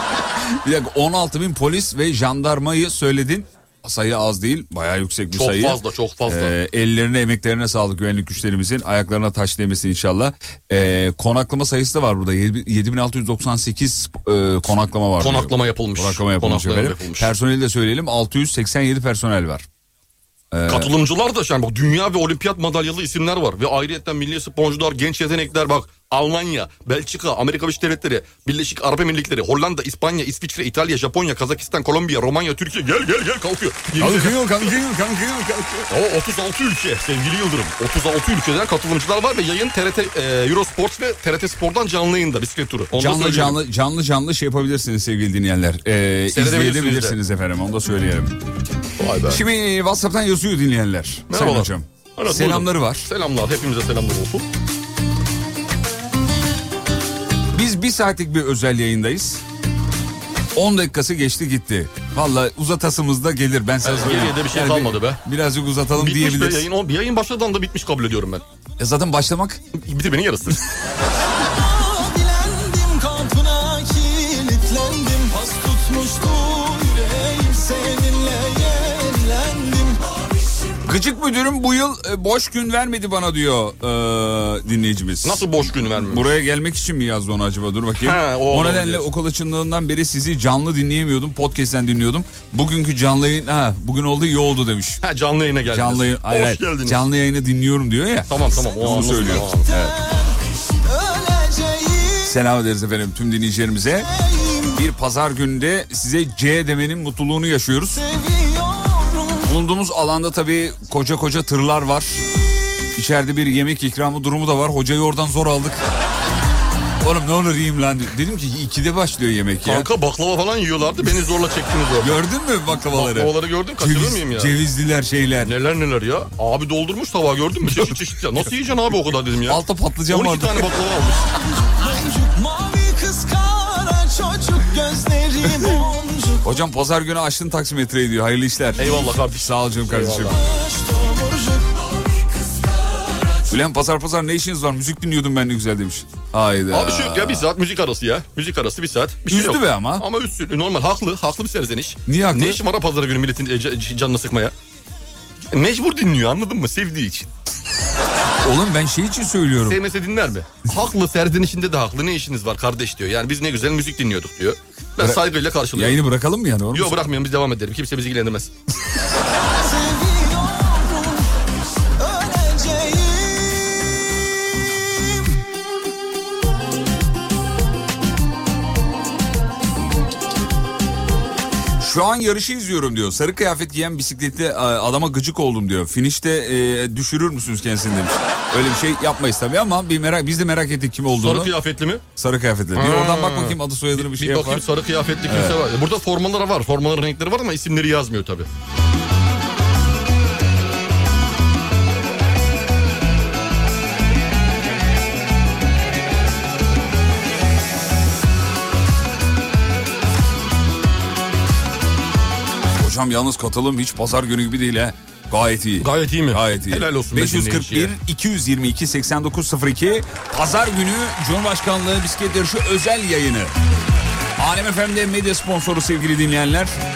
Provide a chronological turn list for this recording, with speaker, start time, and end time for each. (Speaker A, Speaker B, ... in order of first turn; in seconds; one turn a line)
Speaker A: 0.3-19.7
Speaker B: 5.3-6.5
Speaker B: 15.2-17.3
Speaker A: 20.5-20.9
Speaker B: 20.7-34.8
Speaker A: 34.0-35.9
Speaker B: 35.9-43.6
Speaker A: 42.9-48.4
Speaker B: 46.3-47.2
Speaker B: 49.0-49.4
Speaker A: 49.2-53.1
Speaker B: 51.3-54.4
Speaker A: 57.5-59.4
Speaker A: 60.5-66.7
Speaker B: 63.8-65.2
Speaker B: 66.0-68.4
Speaker A: 68.8-69.6
Speaker B: 69.8-70.6
Speaker C: 71.4-80.0
Speaker A: 80.8-95.0
Speaker B: 85.2-86.3
Speaker B: 88.0-89.0
Speaker B: 95.0-97.0
Speaker A: 95.7-100.0
Speaker B: 98.3-99.7
Speaker C: 99.4-102.3
Speaker A: 102.2-104.1
Speaker C: 104.0-104.8
Speaker A: 104.8-108.0
Speaker C: 107.9-109.5
Speaker A: 109.4-112.3
Speaker A: 112.9-115.8
Speaker A: 117.0-119.9
Speaker B: 119.6-122.2
Speaker A: 122.0-125.5
Speaker B: 122.8-124.5
Speaker B: 125.4-131.3
Speaker A: 129.5-130.7
Speaker C: 131.6-136.6
Speaker A: 136.4-140.4
Speaker B: 138.8-140.4
Speaker C: 140.3-142.0
Speaker A: 143.5-147.4
Speaker B: 146.7-154.5
Speaker A: 149.3-150.0
Speaker A: 152.1-152.6
Speaker B: 155.5-157.3
Speaker A: 158.4-159.8
Speaker B: 159.6-166.0
Speaker A: 165.7-167.0
Speaker B: 166.7-168.5
Speaker C: 169.3-171.3
Speaker C: 172.0-174.1
Speaker A: 181.8-191.6
Speaker B: 191.2-192.0
Speaker A: 192.2-194.7
Speaker B: 192.8-198.5
Speaker A: 195.2-195.6
Speaker A: 212.8-223.5
Speaker B: 215.8-217.9
Speaker A: 224.4-226.8